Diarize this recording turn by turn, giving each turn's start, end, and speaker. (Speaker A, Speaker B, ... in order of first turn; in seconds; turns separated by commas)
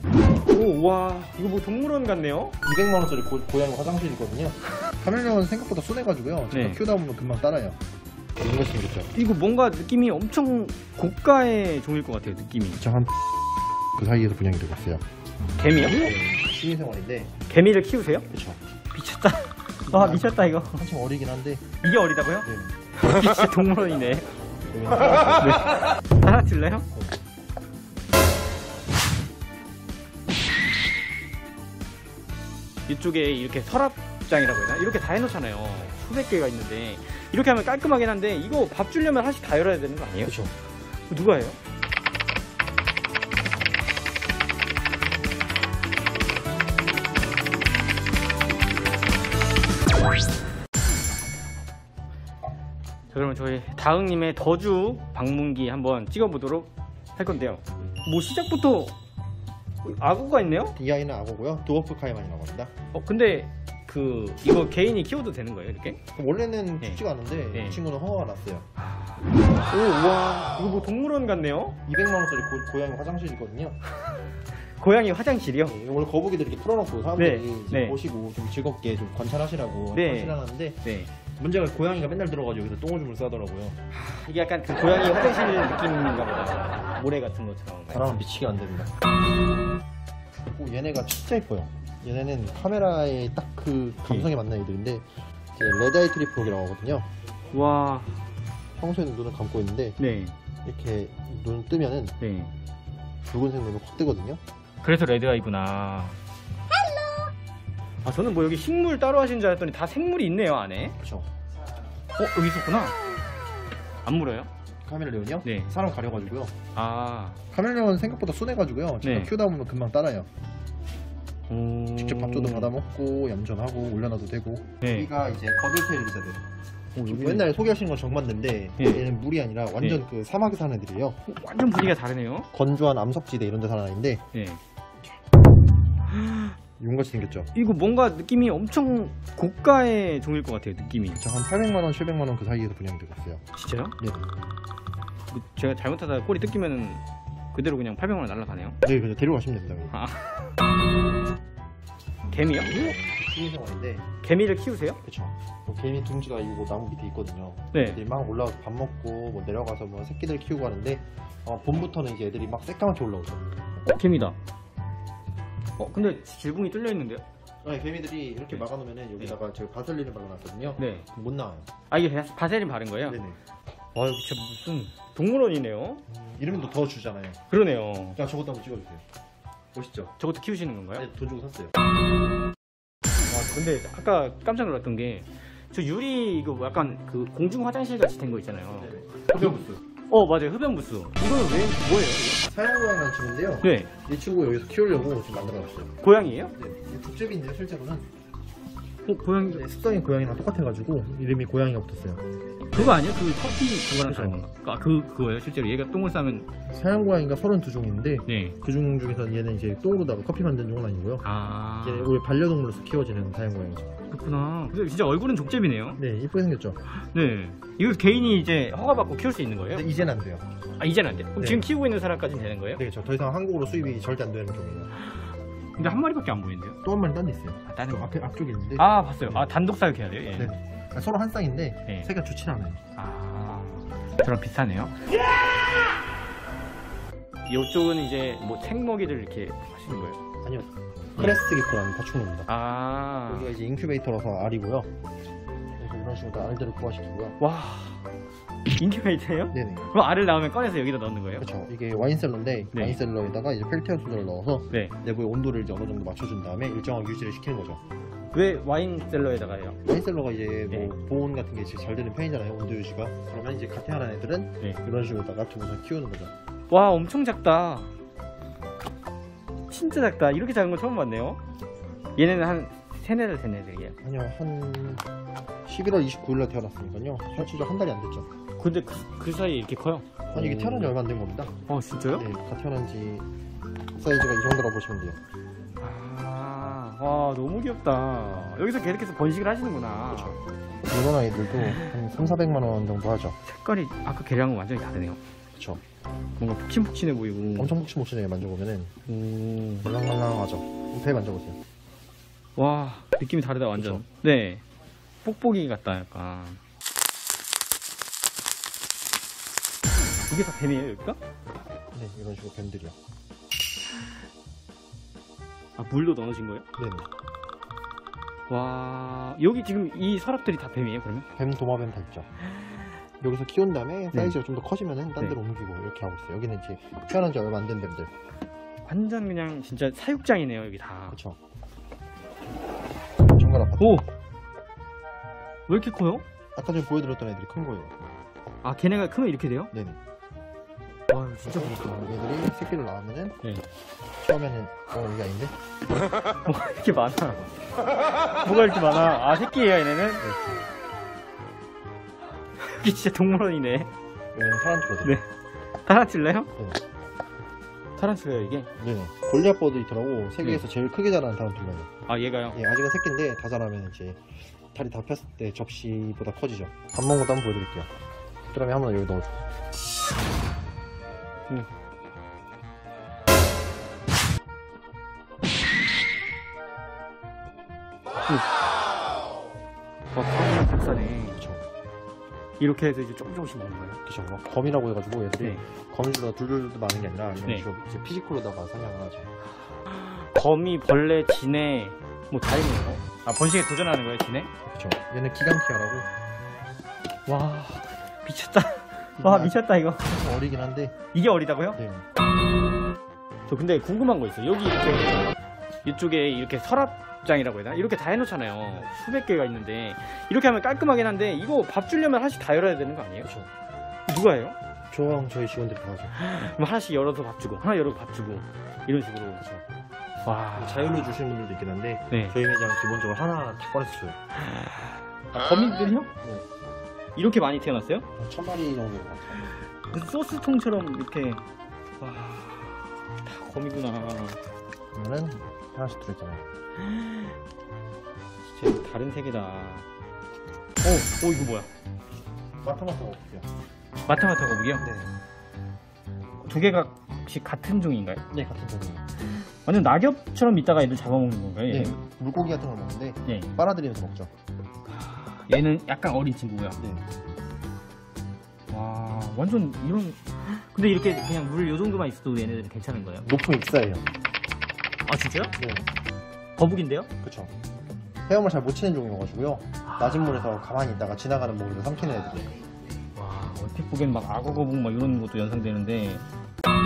Speaker A: 0.3-2.6, Speaker B: 2.6-7.8, Speaker A: 6.5-6.8, Speaker B: 8.4-9.1, Speaker A: 9.1-12.8, Speaker B: 12.8-13.1, Speaker B: 13.9-15.0, Speaker A: 15.6-16.1, Speaker B: 15.9-17.4, Speaker A: 17.5-18.3, Speaker B: 18.3-18.6, Speaker A: 18.9-20.8, Speaker B: 19.9-21.6, Speaker A: 21.8-24.3, Speaker B: 22.4-22.7, Speaker B: 24.7-25.8, Speaker A: 25.4-26.9, Speaker A: 32.9-40.3, Speaker B: 40.2-40.5, Speaker A: 41.1-41.6, Speaker A: 53.1-58.9, Speaker A: 59.8-60.7, Speaker B: 60.8-62.7, Speaker A: 62.9-66.0, Speaker B: 66.1-68.6, Speaker A: 67.5-67.8, Speaker A: 69.6-71.8, Speaker B: 71.8-73.8, Speaker A: 74.8-75.8, Speaker B: 75.6-80.8, Speaker A: 77.2-78.0, Speaker A: 79.9-81.1, Speaker B: 81.4-83.8, Speaker A: 83.9-88.2, Speaker B: 87.9-88.9, Speaker B: 90.5-97.1, Speaker A: 97.5-98.2, Speaker B: 98.8-100.0, Speaker A: 100.0-100.3, Speaker B: 100.6-102.2, Speaker A: 102.2-102.5, Speaker B: 103.2-104.4, Speaker A: 104.8-106.2, Speaker A: 108.0-111.0, Speaker B: 111.0-111.3, Speaker A: 112.2-113.0, Speaker A: 114.0-114.5, Speaker B: 114.8-116.5, Speaker A: 115.4-115.7, Speaker A: 116.7-117.4, Speaker B: 117.5-120.3, Speaker A: 119.0-119.3, Speaker A: 121.5-122.7, Speaker B: 122.0-126.4, Speaker A: 124.8-125.1, Speaker A: 127.0-127.5, Speaker B: 127.0-131.2, Speaker A: 128.8-129.0, Speaker A: 131.2-132.5, Speaker B: 132.5-134.2, Speaker A: 134.3-134.6, Speaker A: 136.1-136.6, Speaker B: 136.8-137.5, Speaker A: 137.5-141.2, Speaker B: 141.2-143.4, Speaker A: 143.5-143.9, Speaker B: 144.0-144.3, Speaker A: 145.3-147.0, Speaker A: 147.5-148.8, Speaker B: 148.8-149.9, Speaker A: 149.9-150.5, Speaker A: 152.3-152.9, Speaker B: 152.6-154.1, Speaker A: 154.2-155.0, Speaker B: 155.0-163.5, Speaker A: 157.7-158.0, Speaker A: 163.8-164.3, Speaker A: 165.8-167.2, Speaker B: 167.6-171.7, Speaker A: 170.8-171.1, Speaker A: 171.9-173.2, Speaker B: 173.1-173.4, Speaker A: 173.9-176.0, Speaker B: 176.1-177.4, Speaker A: 177.5-178.2, Speaker B: 178.2-179.0, Speaker B: 179.7-180.1, Speaker A: 180.2-181.1, Speaker B: 181.0-181.7, Speaker A: 183.3-192.4, Speaker B: 188.8-189.8, Speaker B: 192.4-195.9, Speaker A: 193.6-193.9, Speaker A: 196.0-196.5, Speaker B: 196.6-198.1, Speaker A: 199.1-199.6, Speaker B: 199.4-202.2, Speaker A: 202.7-206.5, Speaker B: 202.7-203.0, Speaker B: 204.0-204.4, Speaker B: 206.7-211.2, Speaker A: 208.3-208.6, Speaker A: 211.2-212.1, Speaker B: 211.8-213.9, Speaker A: 214.1-216.0, Speaker B: 216.0-216.8, Speaker A: 217.0-219.9, Speaker B: 219.7-220.5, Speaker A: 220.8-222.8, Speaker B: 221.4-221.7, Speaker B: 222.8-224.9, Speaker A: 225.1-226.8, Speaker B: 226.8-229.5, Speaker A: 227.7-228.1, Speaker A: 228.8-230.5, Speaker B: 230.3-232.8, Speaker A: 232.9-234.9, Speaker A: 237.5-240.2, Speaker B: 240.4-242.5, Speaker A: 242.5-243.5, Speaker B: 243.3-244.9, Speaker B: 245.8-247.4, Speaker A: 247.4-248.0, Speaker A: 248.8-251.4, Speaker B: 249.5-249.9, Speaker B: 251.4-257.8, Speaker A: 252.7-253.0, Speaker A: 258.3-259.8, Speaker B: 259.8-266.3, Speaker A: 266.7-267.9, Speaker A: 269.7-271.4, Speaker A: 272.1-274.0, Speaker B: 274.0-275.0, Speaker B: 275.6-278.3, Speaker A: 278.6-280.9, Speaker B: 280.3-281.5, Speaker A: 281.7-282.2, Speaker B: 282.1-283.3, Speaker B: 283.9-285.2, Speaker A: 285.8-290.4, Speaker B: 290.1-293.4, Speaker A: 291.6-291.9, Speaker A: 293.4-295.2, Speaker A: 296.4-297.8, Speaker B: 297.6-298.9, Speaker A: 299.1-299.9, Speaker B: 299.8-301.6, Speaker A: 302.6-304.6, Speaker B: 303.7-304.0, Speaker A: 305.2-306.6, Speaker A: 310.3-311.2, Speaker B: 311.9-312.9, Speaker A: 315.8-316.6, Speaker B: 316.8-317.1, Speaker A: 318.5-321.3, Speaker B: 321.4-322.3, Speaker B: 323.2-328.1, Speaker A: 328.9-331.2, Speaker B: 331.1-331.4, Speaker B: 333.3-334.0, Speaker A: 333.8-334.0, Speaker A: 335.7-336.2, Speaker B: 336.6-337.9, Speaker A: 338.6-339.7, Speaker B: 339.7-340.0, Speaker A: 341.1-341.8, Speaker B: 341.4-343.4, Speaker B: 344.2-345.5, Speaker A: 346.4-347.5, Speaker A: 348.3-350.2, Speaker B: 350.2-350.6, Speaker A: 352.6-353.9, Speaker B: 354.3-355.2, Speaker A: 355.8-356.5, Speaker A: 358.0-358.7, Speaker B: 358.8-361.9, Speaker A: 362.1-362.6, Speaker B: 362.5-367.9, Speaker B: 368.5-369.3, Speaker A: 380.1-381.4, Speaker B: 381.4-381.6, Speaker A: 382.6-384.0, Speaker B: 384.0-389.3, Speaker A: 389.9-394.5, Speaker B: 394.6-396.1, Speaker A: 397.2-400.1, Speaker B: 399.2-400.9, Speaker A: 401.1-401.8, Speaker B: 401.8-402.0, Speaker A: 403.5-405.3, Speaker A: 405.8-413.3, Speaker B: 413.2-413.5, Speaker A: 414.1-414.6, Speaker B: 414.9-416.1, Speaker A: 416.1-419.4, Speaker B: 419.4-419.8, Speaker A: 420.2-421.2, Speaker B: 420.5-424.2, Speaker A: 422.1-422.4, Speaker A: 424.5-424.8, Speaker A: 425.3-426.1, Speaker A: 427.1-428.1, Speaker B: 428.2-429.5, Speaker A: 429.9-431.4, Speaker A: 432.0-434.4, Speaker B: 434.9-436.4, Speaker A: 436.8-437.3, Speaker A: 438.5-439.9, Speaker A: 440.8-441.7, Speaker B: 442.6-443.5, Speaker A: 444.1-444.8, Speaker B: 444.8-445.1, Speaker A: 446.4-448.2, Speaker B: 448.3-449.1, Speaker A: 449.6-452.0, Speaker B: 451.7-454.3, Speaker A: 453.2-453.5, Speaker A: 454.9-456.8, Speaker B: 456.8-457.1, Speaker A: 458.7-463.3, Speaker B: 463.2-464.0, Speaker A: 465.1-465.5, Speaker B: 465.6-465.8, Speaker A: 466.6-467.1, Speaker B: 467.2-467.5, Speaker B: 468.2-472.6, Speaker A: 469.9-470.5, Speaker A: 473.1-476.2